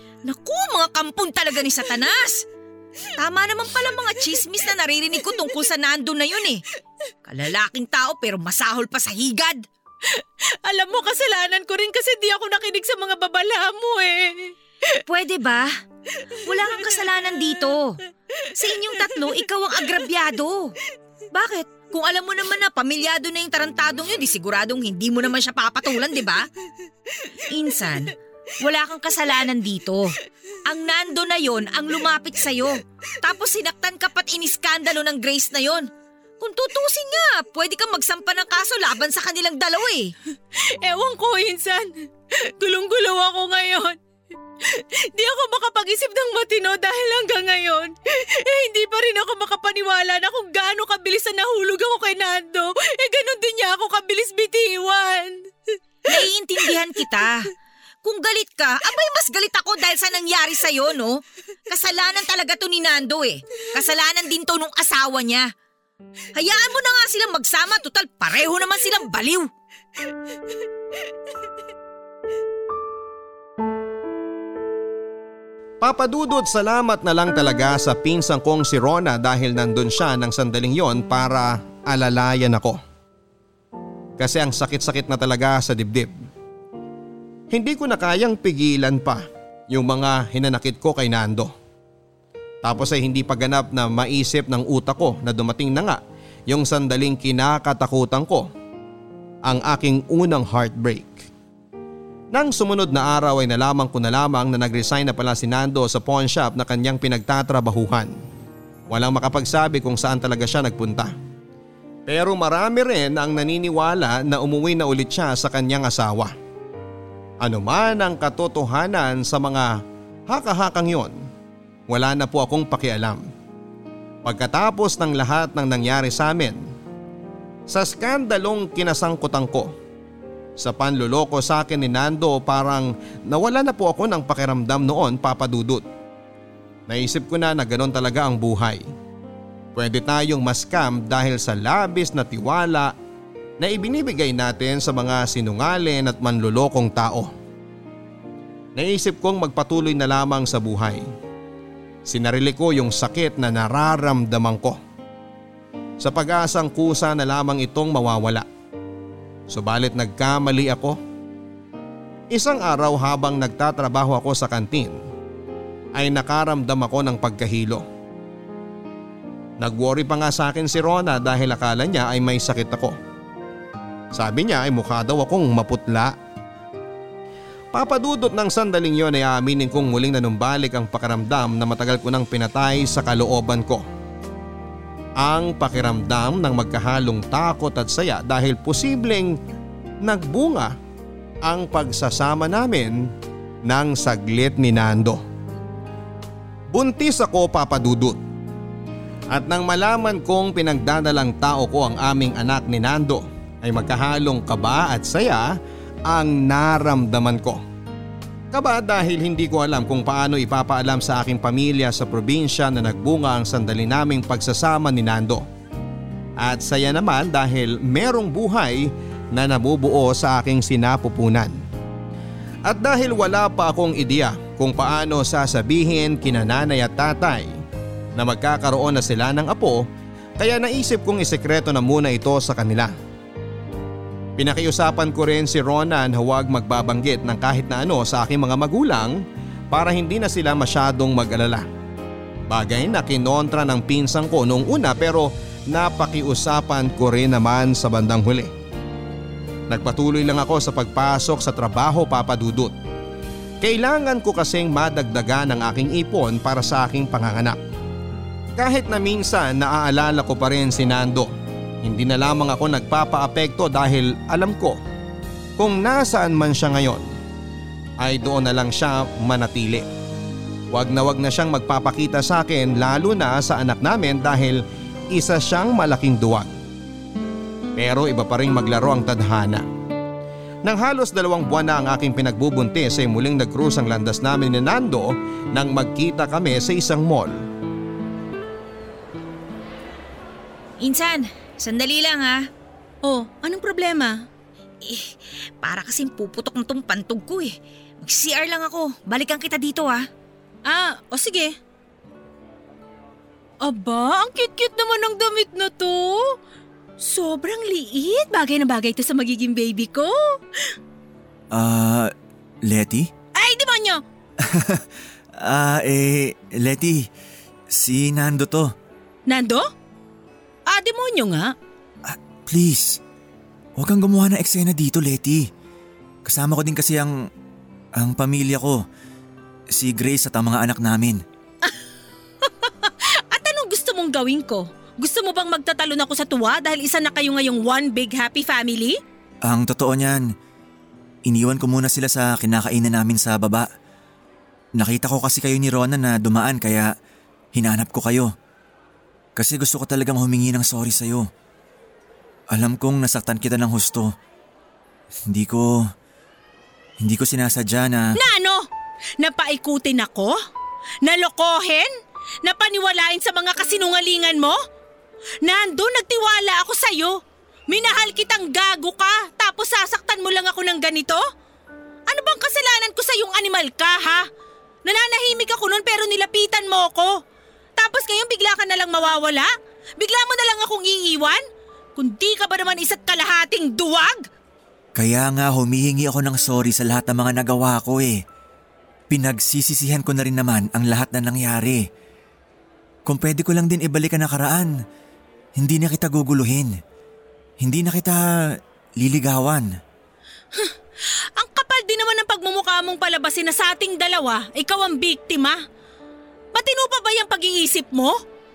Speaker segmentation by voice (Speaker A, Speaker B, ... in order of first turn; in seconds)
Speaker A: 0.2-2.4, 3.2-6.6, 7.3-9.7, 15.1-15.7, 16.4-18.0, 18.5-20.7, 21.3-26.5, 27.5-30.1, 30.7-35.9, 36.4-40.1, 56.1-57.5, 58.0-61.2, 61.7-65.5, 66.4-69.5, 290.8-292.4, 294.8-300.0
Speaker B: 10.1-14.5, 40.6-44.0, 44.7-55.4, 293.0-294.2, 300.7-301.5, 303.6-306.3, 307.0-310.1, 313.4-314.0, 319.3-319.7, 320.7-321.5, 332.5-339.0, 358.2-358.6, 359.2-360.4, 361.0-361.9, 362.4-364.6, 365.4-367.2, 367.7-371.2, 372.1-374.3, 374.9-377.1, 377.8-381.4, 382.0-384.3, 401.4-405.6, 406.5-408.2
Speaker C: 75.8-82.8, 84.2-86.1, 87.5-91.5, 92.6-98.5, 99.4-101.3, 102.3-108.1, 108.9-111.1, 112.1-116.3, 117.4-121.2, 121.9-123.3, 124.2-126.6, 127.7-129.7, 130.6-135.8, 136.9-138.8, 139.8-142.9, 143.6-147.3, 148.8-151.0, 152.1-154.8, 156.0-158.5, 159.5-161.0, 162.3-165.0, 165.9-167.8, 169.6-173.0, 174.1-176.2, 177.7-183.8, 185.2-189.4, 190.0-190.8, 191.4-193.1, 193.7-195.2, 196.7-198.2, 199.3-207.6, 208.5-215.4, 216.4-221.6, 222.7-227.5, 228.2-229.9, 230.4-232.9, 234.4-241.7, 242.5-248.5, 249.7-252.7, 253.6-257.6, 258.6-261.3, 261.8-264.8, 265.6-267.1, 268.0-269.9, 270.7-276.5, 277.8-279.6, 280.6-287.4
Speaker D: 311.5-312.1, 312.7-313.1, 314.4-314.9, 315.4-317.0, 317.7-318.7, 322.1-323.0, 323.8-325.5, 326.2-327.1, 328.0-328.8, 329.7-331.2, 339.4-340.2, 341.3-343.7, 344.8-346.9, 347.5-348.3, 349.4-351.3, 352.5-354.1, 355.3-355.8, 357.0-358.1, 385.0-388.2, 389.1-391.8, 393.1-394.7, 395.6-396.7, 397.6-398.2, 399.0-399.7